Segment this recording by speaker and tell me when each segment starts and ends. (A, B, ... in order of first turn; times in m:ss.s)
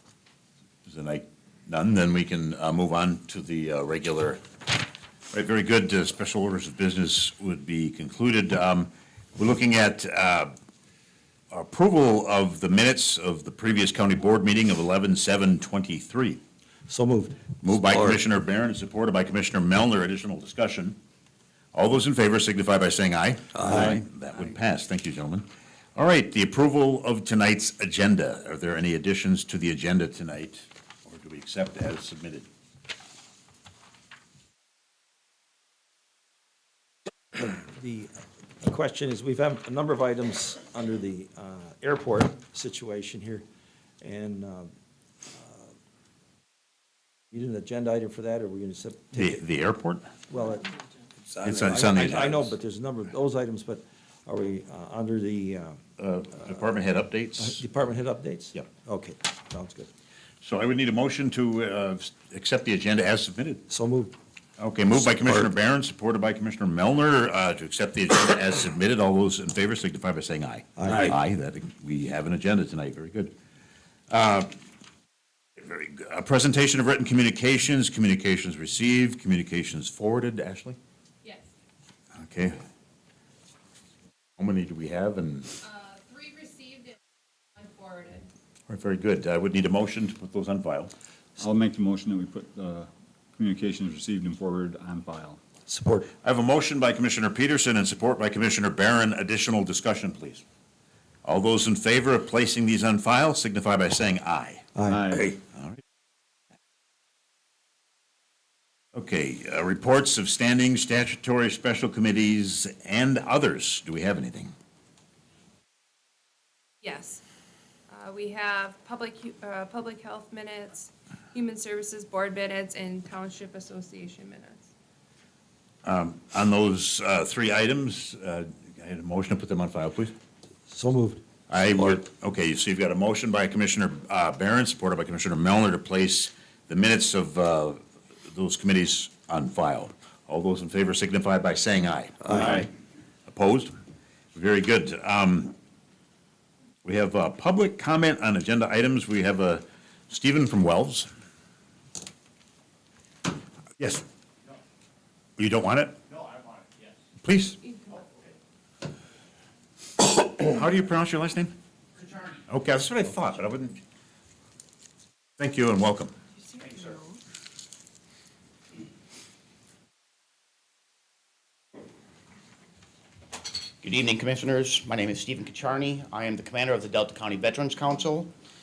0:00.8-0:04.4 A
0:05.3-0:10.5 A
0:11.5-0:16.4 A
0:16.9-0:18.2 B
0:17.6-0:21.0 A
0:21.7-0:32.5 A
0:23.5-0:24.0 B
0:37.4-0:43.4 B
0:44.0-0:44.7 B
0:45.3-0:45.7 B
0:47.3-0:49.4 B
0:49.2-0:50.1 A
0:50.3-0:55.8 B
0:51.4-0:52.5 A
0:56.0-0:57.6 A
0:57.4-0:59.9 B
1:00.4-1:03.6 A
1:03.7-1:04.1 B
1:04.6-1:13.3 A
1:10.8-1:11.2 B
1:14.1-1:14.6 A
1:15.6-1:20.8 A
1:22.2-1:22.6 A
1:24.4-1:25.5 A
1:25.6-1:27.0 C
1:27.6-1:28.3 C
1:28.7-1:30.9 A
1:31.4-1:35.4 D
1:35.7-1:36.1 B
1:36.2-1:40.4 A
1:41.2-1:44.7 A
1:44.7-1:45.1 B
1:44.9-1:45.4 D
1:45.5-1:45.8 A
1:48.9-1:54.5 A
1:56.8-1:57.2 C
1:57.9-2:04.7 C
2:05.8-2:10.1 A
2:10.7-2:11.2 B
2:11.5-2:22.7 A
2:22.3-2:22.6 B
2:23.3-2:23.7 A
2:24.3-2:25.5 A
2:26.8-2:31.1 A
2:33.8-2:34.0 A
2:35.4-2:36.0 A
2:37.2-2:37.6 A
2:40.0-2:41.5 A
2:42.5-2:43.8 A
2:45.4-2:46.1 A
2:46.6-2:47.2 C
2:53.8-2:58.3 E